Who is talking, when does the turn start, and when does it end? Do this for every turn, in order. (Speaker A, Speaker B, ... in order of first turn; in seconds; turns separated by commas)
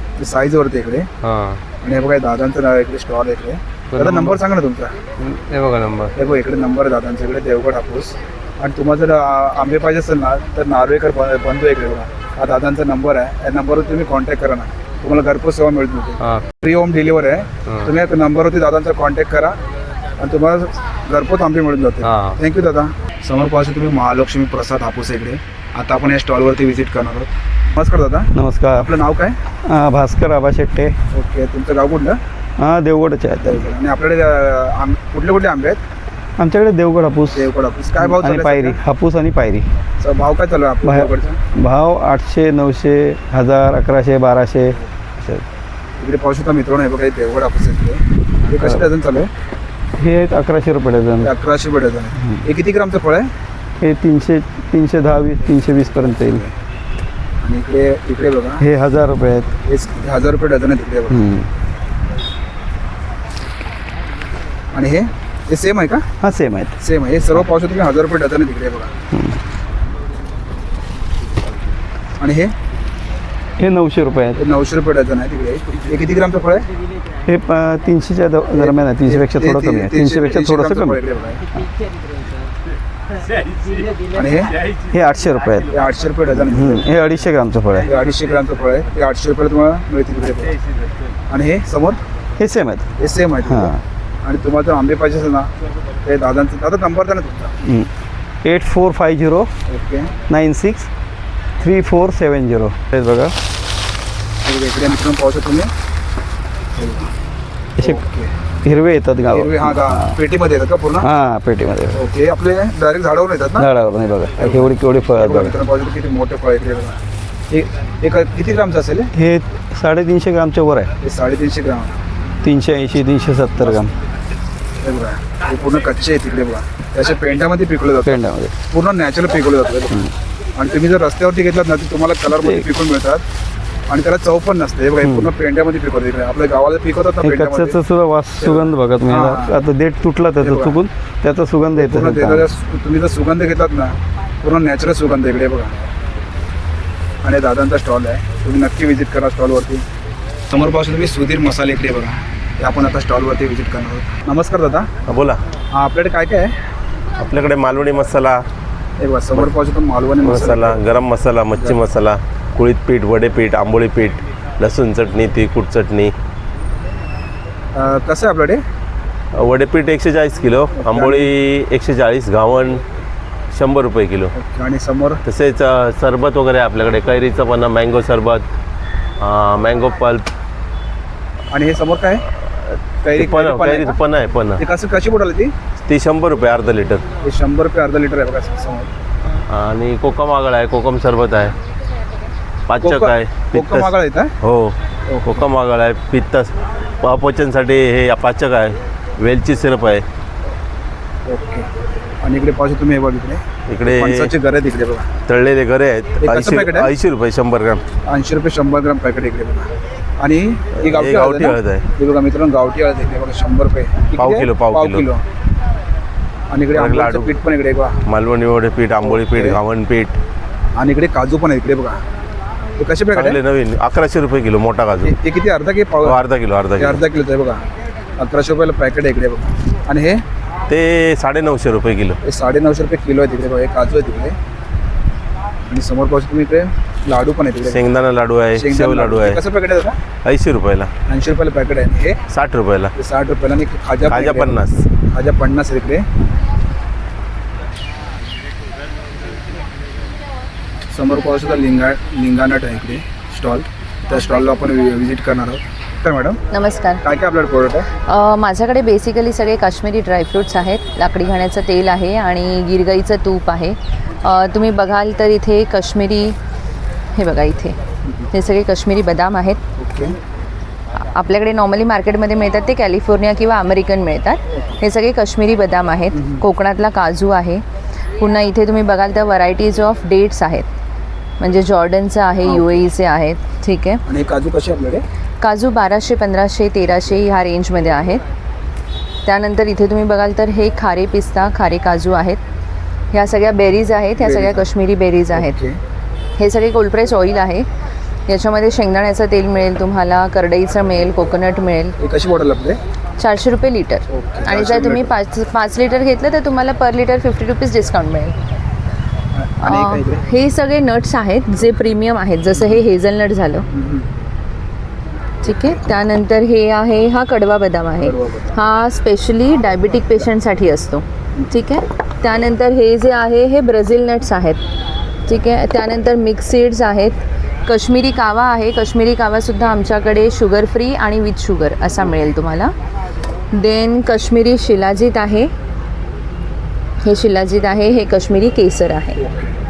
Speaker A: 0.2-1.1, Speaker B: 1.2-1.6, Speaker A: 1.8-4.9, Speaker B: 3.9-4.4, Speaker B: 5.2-6.1, Speaker A: 6.2-19.6, Speaker B: 16.2-16.5, Speaker A: 20.2-29.4, Speaker B: 22.0-22.4, Speaker C: 28.3-29.0, Speaker C: 29.6-30.9, Speaker A: 31.1-32.2, Speaker C: 32.6-33.7, Speaker A: 33.4-35.8, Speaker C: 36.4-39.7, Speaker A: 37.3-38.8, Speaker A: 40.0-41.4, Speaker C: 40.8-45.4, Speaker A: 46.0-49.3, Speaker C: 48.5-48.9, Speaker C: 50.0-51.4, Speaker A: 51.2-53.3, Speaker C: 53.8-56.5, Speaker A: 57.4-58.6, Speaker C: 58.6-59.5, Speaker A: 59.6-61.3, Speaker C: 61.1-61.5, Speaker A: 64.7-66.0, Speaker C: 66.2-66.7, Speaker A: 66.8-68.9, Speaker C: 69.1-69.4, Speaker A: 72.2-72.5, Speaker C: 73.6-74.4, Speaker A: 74.4-76.7, Speaker C: 77.2-81.0, Speaker A: 78.5-81.4, Speaker A: 84.1-84.5, Speaker C: 84.9-85.8, Speaker A: 85.7-86.9, Speaker C: 86.4-87.9, Speaker A: 87.8-90.6, Speaker A: 91.3-92.0, Speaker C: 92.4-92.9, Speaker A: 93.0-95.5, Speaker C: 93.4-93.8, Speaker A: 96.0-97.5, Speaker C: 97.6-97.9, Speaker C: 98.4-99.5, Speaker A: 99.7-100.1, Speaker C: 100.3-100.9, Speaker C: 101.6-103.3, Speaker A: 104.4-105.7, Speaker A: 106.7-107.1, Speaker A: 107.8-108.3, Speaker C: 108.6-110.2, Speaker A: 109.3-111.1, Speaker C: 111.0-112.0, Speaker A: 111.9-113.7, Speaker C: 113.5-115.6, Speaker A: 114.3-117.0, Speaker A: 117.5-119.1, Speaker C: 119.1-120.9, Speaker A: 121.0-122.0, Speaker C: 122.4-123.9, Speaker A: 124.8-133.2, Speaker C: 128.0-128.5, Speaker C: 132.3-132.7, Speaker A: 133.9-137.8, Speaker C: 135.0-135.3, Speaker C: 137.2-142.5, Speaker A: 138.4-139.6, Speaker A: 140.4-140.8, Speaker A: 141.8-145.8, Speaker A: 147.2-149.8, Speaker A: 150.5-154.9, Speaker D: 155.1-155.4, Speaker A: 155.7-156.5, Speaker D: 157.2-158.4, Speaker A: 159.0-160.9, Speaker D: 160.2-166.1, Speaker A: 161.5-161.8, Speaker A: 167.7-168.6, Speaker D: 169.4-172.8, Speaker A: 170.8-171.3, Speaker D: 173.5-174.3, Speaker A: 174.3-175.2, Speaker D: 175.3-178.4, Speaker D: 179.2-180.2, Speaker A: 181.5-182.2, Speaker A: 183.0-184.0, Speaker D: 183.2-184.6, Speaker A: 184.5-185.5, Speaker D: 185.9-187.0, Speaker A: 187.2-188.9, Speaker D: 189.5-191.5, Speaker D: 192.7-193.9, Speaker A: 192.8-194.3, Speaker D: 194.4-194.7, Speaker A: 195.1-195.4, Speaker D: 195.2-200.0, Speaker A: 201.2-201.7, Speaker A: 202.2-205.1, Speaker D: 203.7-204.3, Speaker D: 205.3-207.8, Speaker A: 206.2-206.9, Speaker A: 208.1-215.2, Speaker D: 210.8-211.8, Speaker D: 214.2-215.0, Speaker A: 216.5-218.0, Speaker D: 216.7-217.3, Speaker D: 218.1-220.2, Speaker A: 218.9-219.6, Speaker A: 220.7-222.0, Speaker A: 222.8-223.4, Speaker D: 223.1-225.1, Speaker A: 224.9-227.6, Speaker D: 226.0-227.0, Speaker A: 228.2-230.2, Speaker D: 230.7-232.2, Speaker A: 232.2-234.3, Speaker A: 235.6-240.0, Speaker D: 237.7-239.4, Speaker D: 240.2-240.9, Speaker A: 241.1-242.2, Speaker D: 242.3-242.9, Speaker A: 242.9-246.1, Speaker D: 244.1-244.8, Speaker A: 250.9-256.4, Speaker E: 256.5-257.0, Speaker A: 257.0-257.9, Speaker E: 258.1-266.4, Speaker E: 267.2-267.8, Speaker E: 268.3-269.6, Speaker A: 269.8-270.1, Speaker E: 271.0-277.6, Speaker A: 276.1-276.4, Speaker E: 278.2-280.7, Speaker E: 281.4-284.0, Speaker A: 282.4-282.8, Speaker A: 284.1-285.0, Speaker E: 285.4-288.2, Speaker E: 289.2-292.4, Speaker E: 293.1-295.6, Speaker A: 294.2-294.7, Speaker A: 295.3-295.8, Speaker E: 296.4-297.7, Speaker E: 298.3-301.9, Speaker A: 302.0-302.8, Speaker E: 303.2-308.4, Speaker A: 304.1-305.1, Speaker A: 309.3-310.2, Speaker E: 309.6-313.6, Speaker A: 312.5-312.8, Speaker A: 313.7-314.1, Speaker E: 315.4-324.6, Speaker A: 315.4-315.8, Speaker A: 318.0-318.6, Speaker E: 325.3-332.7, Speaker E: 333.6-335.5, Speaker E: 337.1-339.2, Speaker A: 339.1-339.6